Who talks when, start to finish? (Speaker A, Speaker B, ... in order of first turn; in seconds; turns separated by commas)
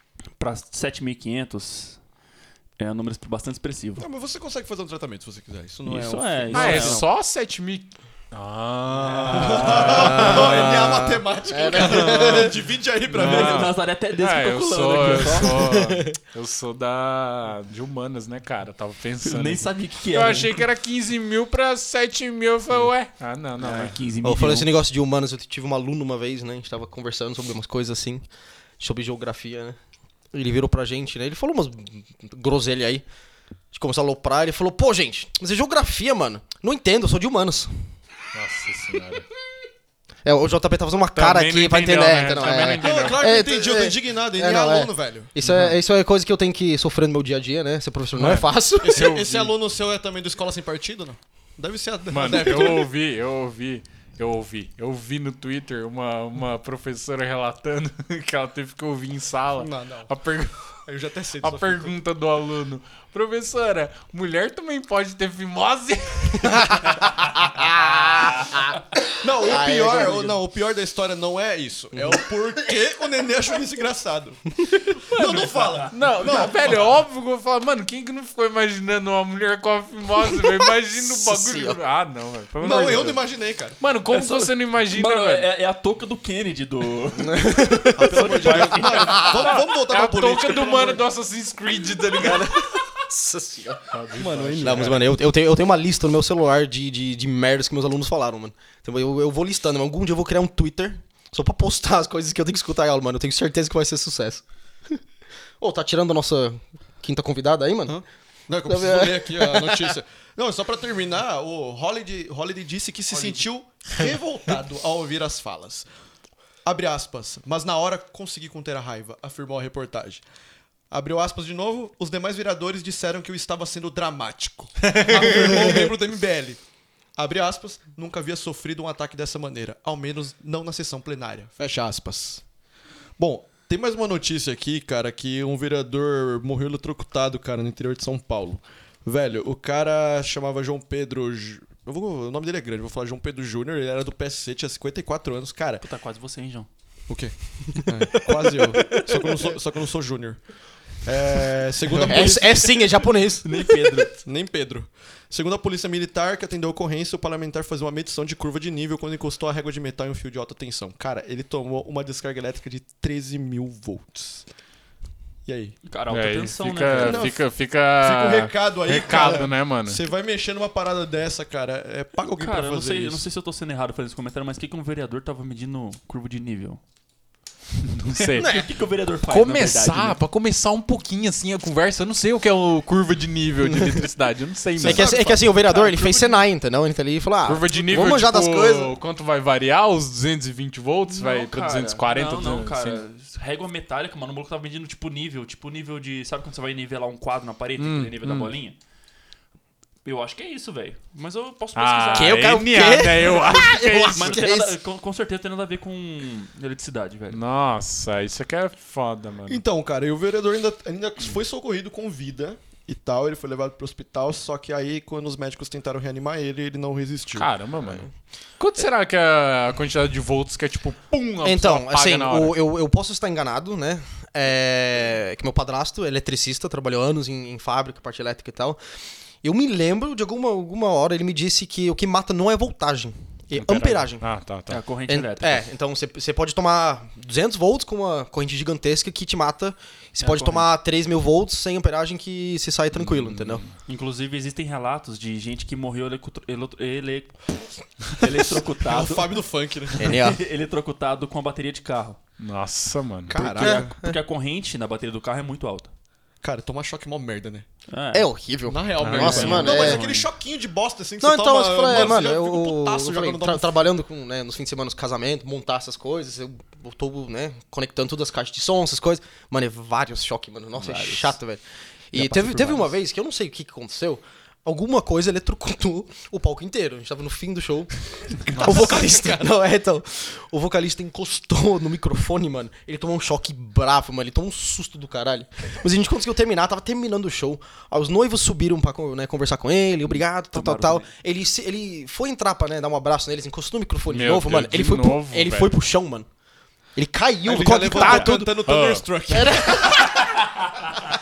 Speaker A: 0.4-2.0, Speaker A: 2.8-4.1, Speaker B: 4.0-7.1, Speaker A: 5.8-7.0, Speaker C: 6.5-10.8, Speaker A: 9.0-10.4, Speaker B: 9.3-13.7, Speaker D: 9.8-12.5, Speaker C: 11.7-12.5, Speaker A: 13.1-15.6, Speaker C: 13.1-24.0, Speaker D: 15.6-16.1, Speaker A: 19.2-20.6, Speaker A: 23.6-24.7, Speaker D: 24.2-28.2, Speaker D: 28.8-29.8, Speaker D: 30.3-33.0, Speaker D: 33.7-37.9, Speaker C: 38.3-39.3, Speaker D: 40.2-49.1, Speaker C: 41.1-43.4, Speaker B: 42.8-45.3, Speaker C: 45.4-45.7, Speaker C: 48.1-49.5, Speaker B: 48.8-52.9, Speaker C: 52.1-60.8, Speaker B: 59.6-60.1, Speaker B: 60.9-61.9, Speaker C: 61.4-68.4, Speaker D: 66.6-68.8, Speaker B: 69.2-77.0, Speaker D: 69.4-70.4, Speaker A: 75.1-75.9, Speaker C: 75.9-83.2, Speaker D: 80.3-81.8, Speaker B: 82.6-83.8, Speaker C: 83.8-85.5, Speaker A: 84.1-89.3, Speaker D: 87.2-89.5, Speaker B: 87.9-91.0, Speaker C: 88.7-92.8, Speaker D: 92.1-93.8, Speaker C: 93.9-95.0, Speaker B: 94.1-95.0, Speaker D: 94.6-105.0, Speaker D: 105.6-108.0, Speaker B: 107.9-115.8, Speaker D: 108.7-110.0, Speaker B: 116.6-120.2, Speaker B: 120.9-126.6, Speaker B: 127.2-132.4, Speaker B: 133.2-145.8, Speaker A: 145.8-146.7, Speaker B: 147.1-152.6, Speaker D: 148.5-149.1, Speaker D: 151.9-153.7, Speaker A: 151.9-152.8, Speaker A: 153.4-154.1, Speaker B: 154.1-164.4, Speaker B: 165.4-165.8, Speaker A: 165.8-167.3, Speaker C: 166.1-170.0, Speaker B: 166.9-167.4, Speaker B: 168.0-173.3, Speaker A: 172.2-176.8, Speaker C: 177.9-178.6, Speaker A: 178.2-180.2, Speaker D: 178.4-178.7, Speaker C: 179.2-185.2, Speaker D: 183.6-183.9, Speaker D: 184.8-188.9, Speaker B: 184.8-185.4, Speaker A: 185.0-186.4, Speaker C: 187.4-193.0, Speaker A: 191.1-198.8, Speaker C: 197.8-198.5, Speaker A: 200.0-207.4, Speaker C: 201.8-204.4, Speaker D: 202.2-204.8, Speaker C: 207.3-209.6, Speaker B: 209.5-217.5, Speaker C: 217.3-222.6, Speaker D: 221.4-228.8, Speaker D: 229.4-234.2, Speaker C: 233.5-234.8, Speaker A: 234.7-235.7, Speaker D: 235.1-243.6, Speaker A: 240.2-240.7, Speaker C: 242.9-243.7, Speaker A: 243.8-247.4, Speaker A: 248.1-249.4, Speaker B: 248.8-250.1, Speaker D: 250.0-250.4, Speaker A: 250.0-252.2, Speaker C: 252.4-253.4, Speaker B: 253.3-253.9, Speaker D: 253.4-254.2, Speaker A: 253.4-255.9, Speaker B: 256.4-257.7, Speaker A: 257.9-258.3, Speaker D: 258.1-260.0, Speaker B: 258.7-263.9, Speaker C: 259.0-259.7, Speaker A: 259.1-260.3, Speaker D: 261.2-296.3, Speaker A: 270.7-271.4, Speaker A: 272.1-272.9, Speaker C: 278.5-278.9, Speaker A: 290.1-291.1, Speaker C: 294.1-295.7, Speaker D: 296.9-298.6, Speaker B: 297.4-300.4, Speaker C: 297.9-299.1, Speaker D: 299.3-300.2